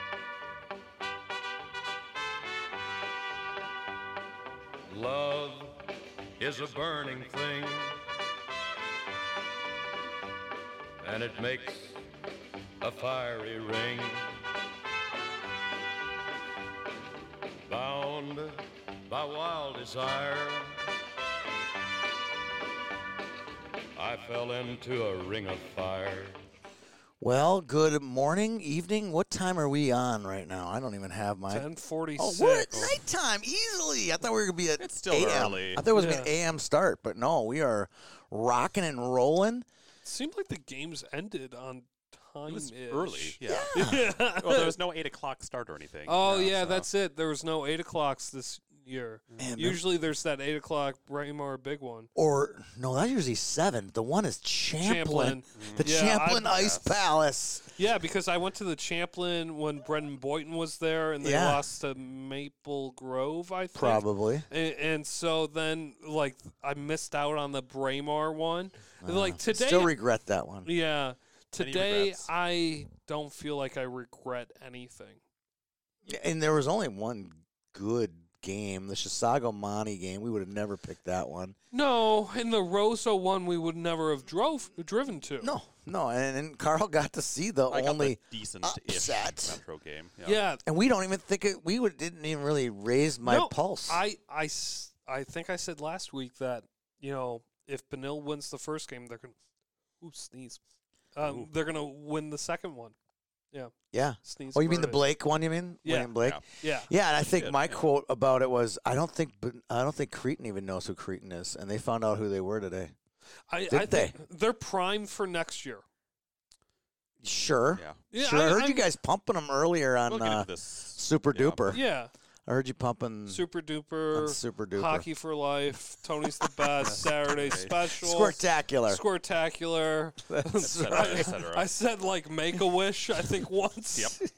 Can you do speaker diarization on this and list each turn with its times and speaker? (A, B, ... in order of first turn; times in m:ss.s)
0:04.9-0:08.0 A
0:11.0-0:12.0 A
0:12.8-0:14.5 A
0:17.7-0:20.8 A
0:24.0-0:26.4 A
0:27.2-0:31.6 B
0:31.5-0:32.7 C
0:32.2-0:39.6 B
0:32.7-0:33.0 D
0:34.8-0:35.8 D
0:35.9-0:36.3 C
0:40.0-0:44.8 C
0:42.5-0:46.9 D
0:43.4-0:44.0 B
0:46.0-0:52.1 C
0:49.4-0:49.8 B
0:52.1-0:57.7 B
0:54.8-0:56.6 C
0:55.5-0:55.9 D
0:56.5-0:56.9 D
0:57.8-1:09.9 C
1:01.2-1:01.6 B
1:03.7-1:04.4 B
1:09.0-1:10.7 B
1:10.6-1:15.2 C
1:11.6-1:12.3 D
1:16.1-1:21.5 B
1:21.7-1:25.5 C
1:25.4-1:29.6 B
1:27.7-1:30.4 D
1:30.2-1:30.6 C
1:30.6-1:34.0 B
1:33.2-1:39.4 C
1:40.0-1:40.6 C
1:41.1-1:42.9 C
1:41.2-1:41.5 D
1:43.5-1:45.0 C
1:43.9-1:52.9 B
1:45.8-1:46.9 C
1:47.2-1:47.9 D
1:53.5-1:55.8 C
1:53.7-1:54.1 B
1:57.2-2:01.8 B
1:57.7-1:58.0 D
1:58.1-1:58.9 C
2:00.1-2:01.8 D
2:01.7-2:02.1 C
2:02.5-2:03.4 B
2:03.3-2:14.2 C
2:04.1-2:05.0 B
2:06.8-2:07.9 D
2:08.0-2:09.0 B
2:10.3-2:11.3 B
2:10.6-2:11.7 D